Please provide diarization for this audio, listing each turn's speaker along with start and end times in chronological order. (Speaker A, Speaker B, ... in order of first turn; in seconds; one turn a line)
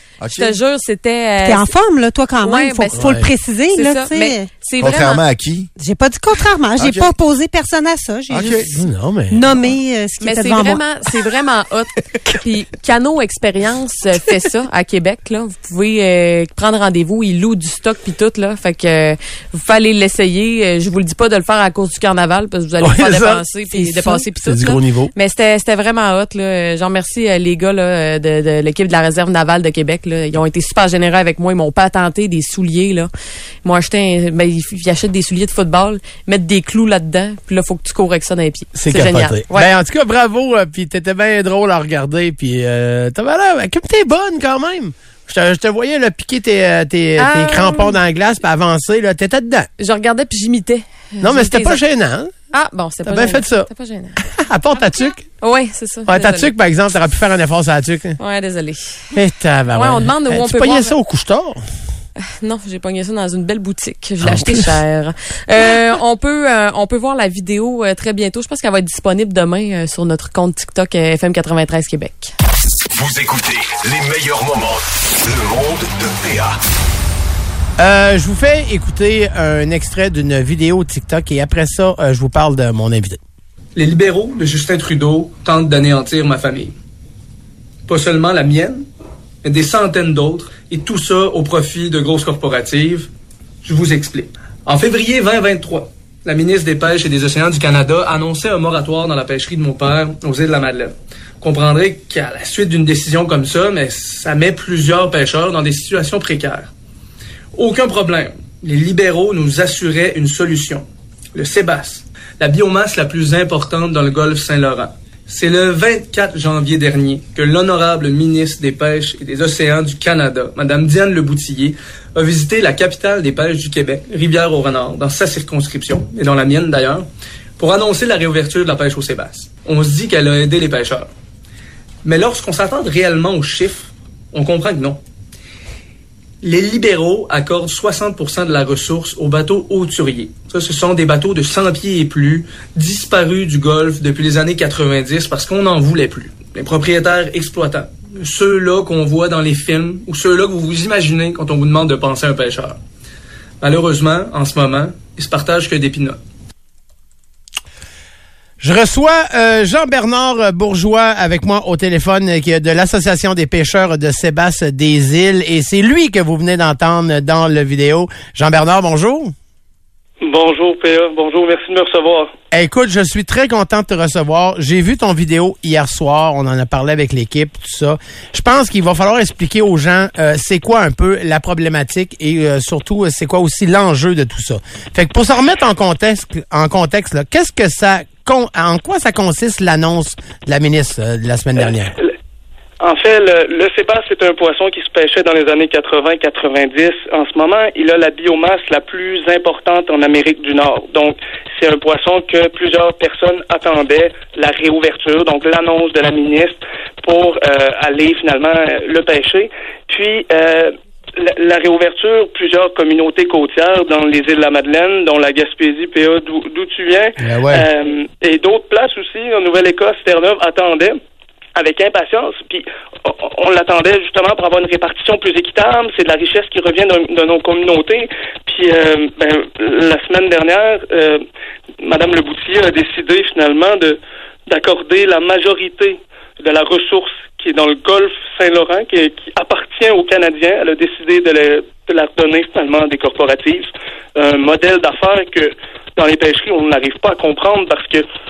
Speaker A: 0.2-0.6
Speaker B: 0.3-1.7
Speaker C: 1.4-4.5
Speaker B: 2.4-3.2
Speaker D: 3.0-3.3
Speaker B: 3.7-5.2
Speaker A: 4.8-5.7
Speaker C: 5.8-10.8
Speaker A: 6.8-7.1
Speaker A: 8.3-8.7
Speaker D: 8.8-9.4
Speaker B: 10.2-33.1
Speaker D: 22.8-25.1
Speaker B: 33.6-39.7
Speaker D: 38.8-49.7
Speaker B: 47.2-48.0
Speaker B: 49.8-51.8
Speaker D: 51.2-52.3
Speaker B: 52.5-54.2
Speaker D: 53.1-53.7
Speaker D: 54.3-55.3
Speaker B: 55.4-56.5
Speaker D: 56.1-58.2
Speaker B: 58.2-59.1
Speaker D: 59.1-61.6
Speaker B: 59.7-61.0
Speaker B: 62.2-72.3
Speaker D: 64.2-64.7
Speaker E: 72.9-76.6
Speaker D: 77.8-83.2
Speaker F: 83.8-86.8
Speaker F: 87.9-88.9
Speaker F: 89.4-93.1
Speaker F: 93.6-106.7
Speaker F: 107.5-127.1
Speaker F: 127.6-131.1
Speaker F: 132.0-135.0
Speaker F: 136.4-152.8
Speaker F: 153.6-156.2
Speaker D: 158.6-169.3
Speaker G: 170.2-172.3
Speaker D: 172.5-191.9
Speaker G: 192.8-221.0
Speaker D: 217.2-217.7
Speaker G: 221.6-231.2
Speaker G: 231.8-248.1